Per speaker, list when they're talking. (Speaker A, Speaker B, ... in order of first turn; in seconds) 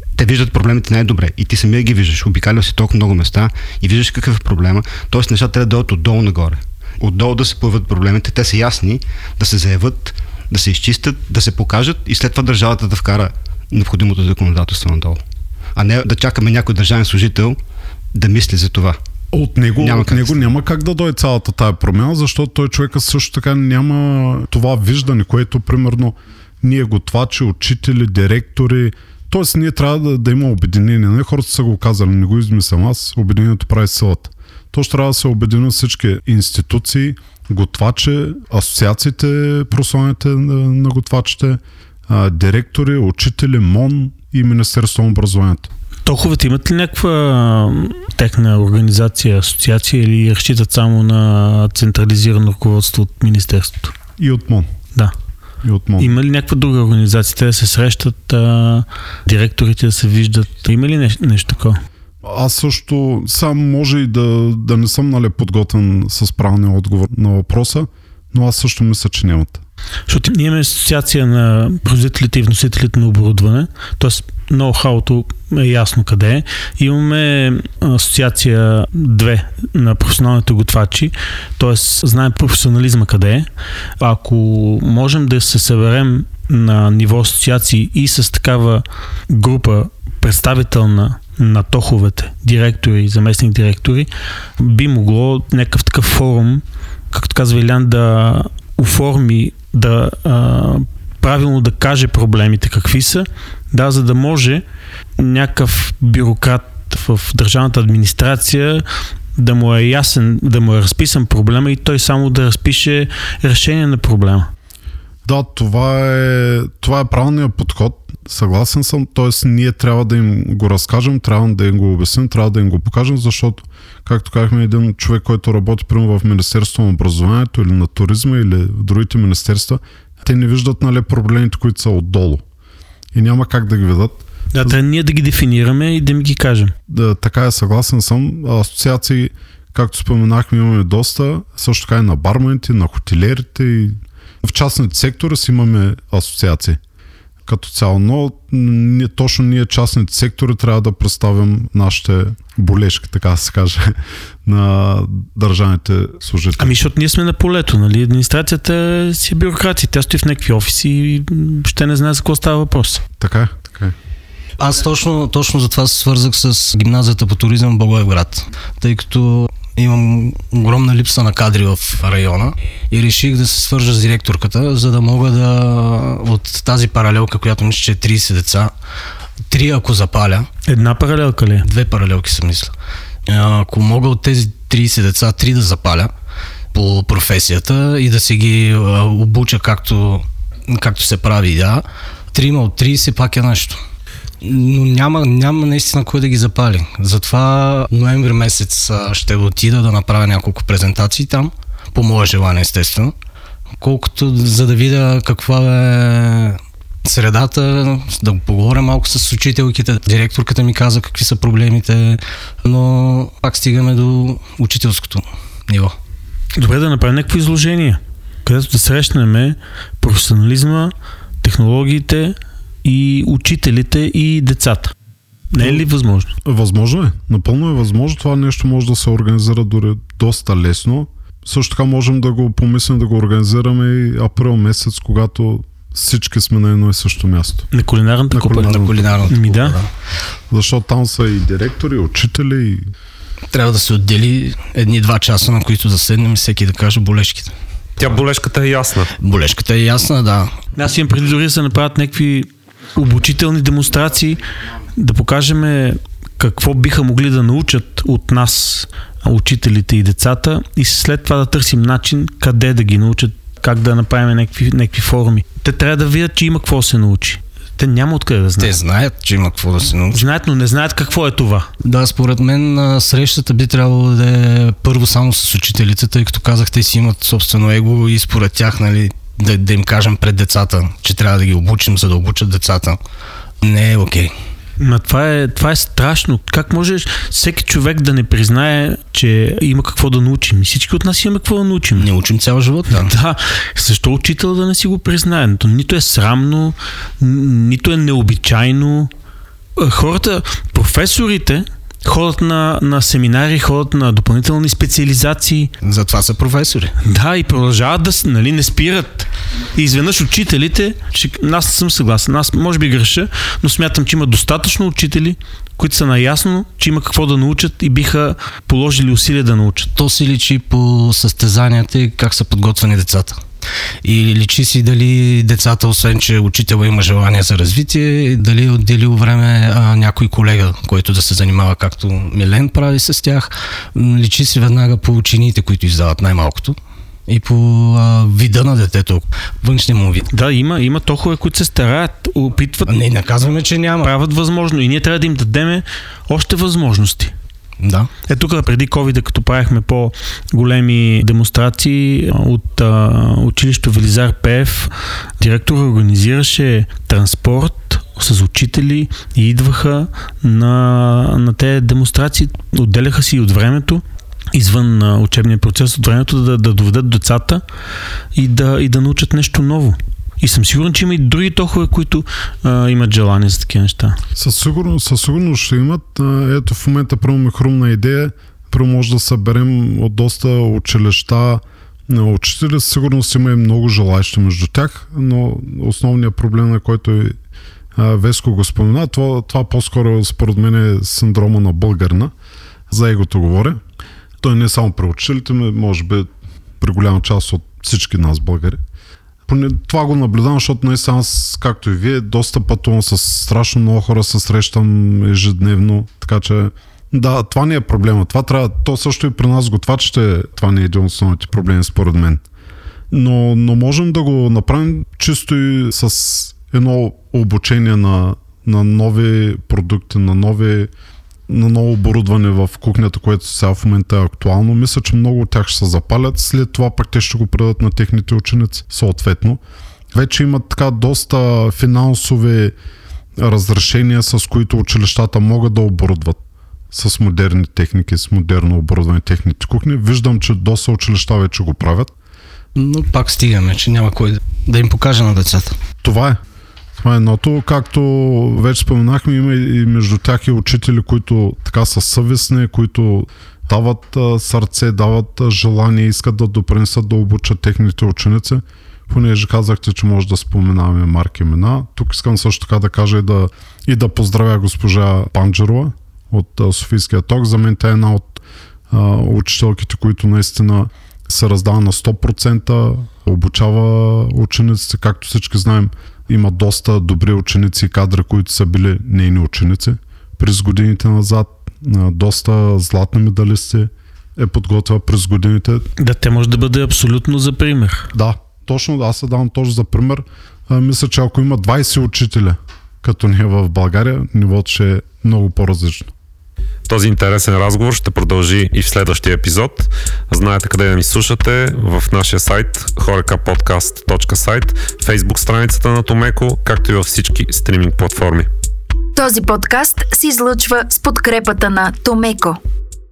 Speaker A: 0.2-15.2, 15.8-17.6, 18.1-19.0, 19.8-20.5
Speaker B: 19.3-45.7, 54.2-54.7, 55.6-56.2, 62.2-69.6, 115.2-132.4, 133.1-134.8, 136.9-146.8, 147.5-156.8, 163.2-163.9, 225.6-225.8, 226.4-237.7, 238.3-238.8, 240.5-242.9, 374.4-387.4, 387.9-392.3, 392.9-393.8, 394.4-396.3, 396.8-398.8, 399.5-412.4, 413.1-420.9, 421.5-429.6, 430.1-432.8, 433.4-436.4, 436.9-442.1, 446.0-446.4, 447.0-468.4, 468.9-485.9, 488.1-496.1
Speaker C: 46.1-53.9, 56.0-61.8, 70.1-83.5, 84.0-94.1, 94.6-104.6, 105.2-108.8, 109.3-114.5, 134.5-136.8, 156.6-163.0, 180.7-181.7, 216.6-224.9, 225.5-226.3, 237.7-239.8, 250.8-254.4, 254.9-268.8, 270.1-271.7, 284.8-292.1, 292.9-299.1, 299.8-305.7, 307.0-319.9, 340.3-343.1, 344.0-347.3, 348.3-364.0, 364.5-367.6, 368.4-374.2, 486.0-488.1
Speaker D: 164.6-178.7, 179.5-180.5, 181.6-182.7, 183.3-186.1, 186.7-193.8, 194.4-203.1, 203.8-215.9, 238.6-239.9, 243.5-247.5, 249.2-250.5, 268.6-270.3, 271.8-283.0, 283.6-284.3, 292.0-293.1, 305.8-306.9, 320.0-323.4, 324.0-340.3, 342.9-344.1, 347.8-348.1, 442.8-445.8
Speaker E: 248.0-249.1, 496.9-508.5
Speaker F: 509.2-512.6